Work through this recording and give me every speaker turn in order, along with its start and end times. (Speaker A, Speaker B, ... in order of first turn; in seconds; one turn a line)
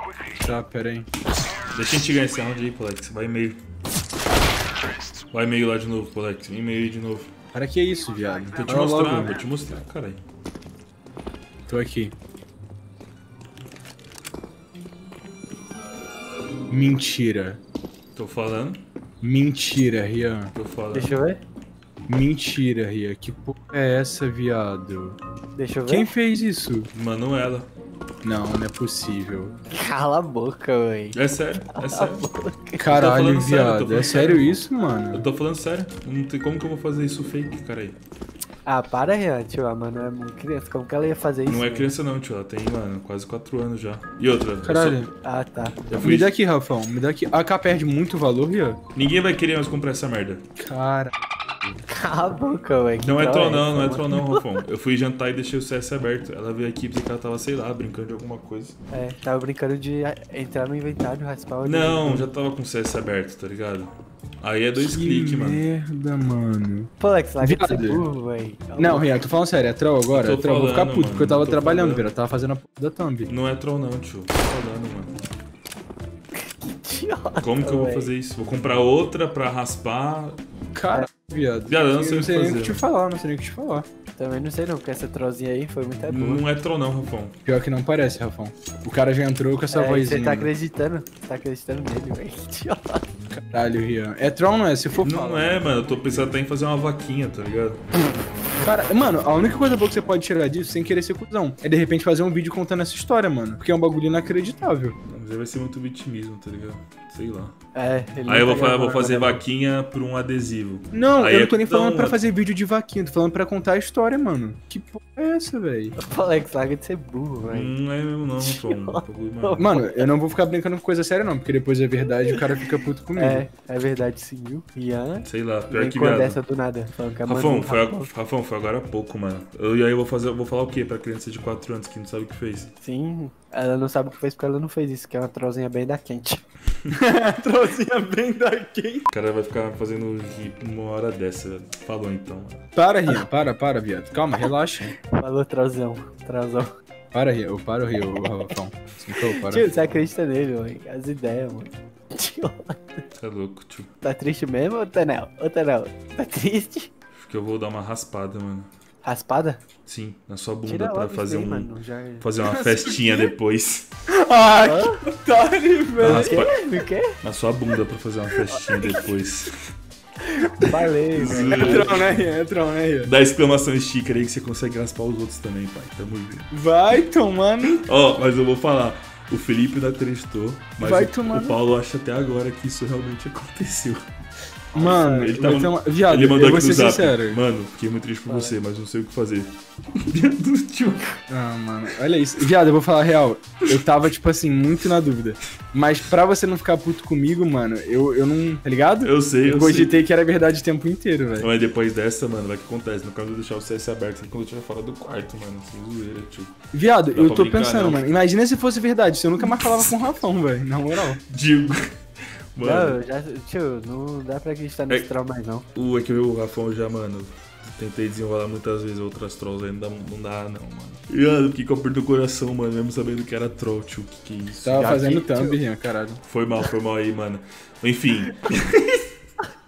Speaker A: 0.3-1.1
Speaker B: 1.7-3.6
Speaker B: 5.3-7.3
Speaker A: 7.5-9.4
Speaker B: 8.6-10.2
Speaker A: 11.7-12.1
Speaker A: 16.7-17.6
Speaker B: 18.1-18.8
Speaker A: 19.2-20.5
Speaker B: 20.5-21.2
Speaker C: 20.9-21.4
Speaker A: 22.1-25.2
Speaker C: 25.5-26.1
Speaker A: 25.9-26.9
Speaker B: 26.9-27.7
Speaker A: 28.2-29.5
Speaker C: 29.7-31.2
Speaker B: 31.1-32.3
Speaker C: 31.7-32.8
Speaker A: 32.8-35.2
Speaker B: 32.9-34.6
Speaker B: 35.1-38.0
Speaker C: 38.6-41.9
Speaker B: 41.5-45.0
Speaker A: 44.6-45.1
Speaker C: 45.2-45.8
Speaker B: 45.9-46.3
Speaker A: 46.0-48.8
Speaker B: 48.9-50.4
Speaker A: 50.6-51.1
Speaker C: 51.9-54.2
Speaker B: 53.0-58.8
Speaker C: 58.9-62.3
Speaker B: 61.6-65.6
Speaker A: 64.8-68.0
Speaker C: 67.0-69.1
Speaker A: 68.8-73.3
Speaker B: 70.1-72.1
Speaker B: 73.3-75.2
Speaker C: 76.3-78.1
Speaker B: 77.4-80.4
Speaker A: 80.7-83.9
Speaker B: 81.7-82.8
Speaker C: 84.1-86.4
Speaker B: 86.1-87.4
Speaker A: 87.5-90.5
Speaker C: 89.7-93.0
Speaker A: 93.3-95.2
Speaker B: 94.9-97.8
Speaker C: 95.1-96.0
Speaker A: 98.6-105.0
Speaker B: 105.0-107.5
Speaker C: 107.7-109.4
Speaker B: 108.2-112.2
Speaker A: 110.9-116.0
Speaker C: 116.0-117.7
Speaker B: 117.5-119.6
Speaker C: 118.4-119.9
Speaker A: 119.6-123.4
Speaker C: 123.2-128.1
Speaker B: 125.2-126.4
Speaker B: 127.2-132.7
Speaker C: 132.8-136.4
Speaker A: 136.9-139.0
Speaker B: 139.1-142.6
Speaker A: 142.7-144.9
Speaker C: 145.1-146.7
Speaker A: 147.1-149.8
Speaker C: 149.4-153.0
Speaker B: 153.2-153.9
Speaker C: 154.0-156.9
Speaker B: 157.1-158.7
Speaker C: 159.0-159.6
Speaker B: 159.8-163.9
Speaker C: 160.6-162.3
Speaker A: 162.4-163.3
Speaker A: 164.1-166.4
Speaker C: 164.6-165.0
Speaker B: 166.0-166.6
Speaker C: 166.1-167.2
Speaker B: 167.2-169.5
Speaker C: 170.4-172.0
Speaker B: 171.1-172.2
Speaker A: 171.2-173.1
Speaker B: 173.0-176.5
Speaker A: 176.5-177.8
Speaker B: 177.8-184.0
Speaker A: 180.8-181.6
Speaker B: 184.7-191.1
Speaker A: 184.7-187.4
Speaker C: 188.3-188.6
Speaker A: 191.3-201.5
Speaker B: 199.0-199.9
Speaker B: 201.4-206.5
Speaker A: 206.7-211.2
Speaker B: 207.1-208.0
Speaker B: 211.3-211.9
Speaker B: 212.5-213.0
Speaker C: 212.6-215.7
Speaker B: 215.7-225.1
Speaker A: 224.6-226.2
Speaker C: 224.7-225.6
Speaker B: 226.2-229.0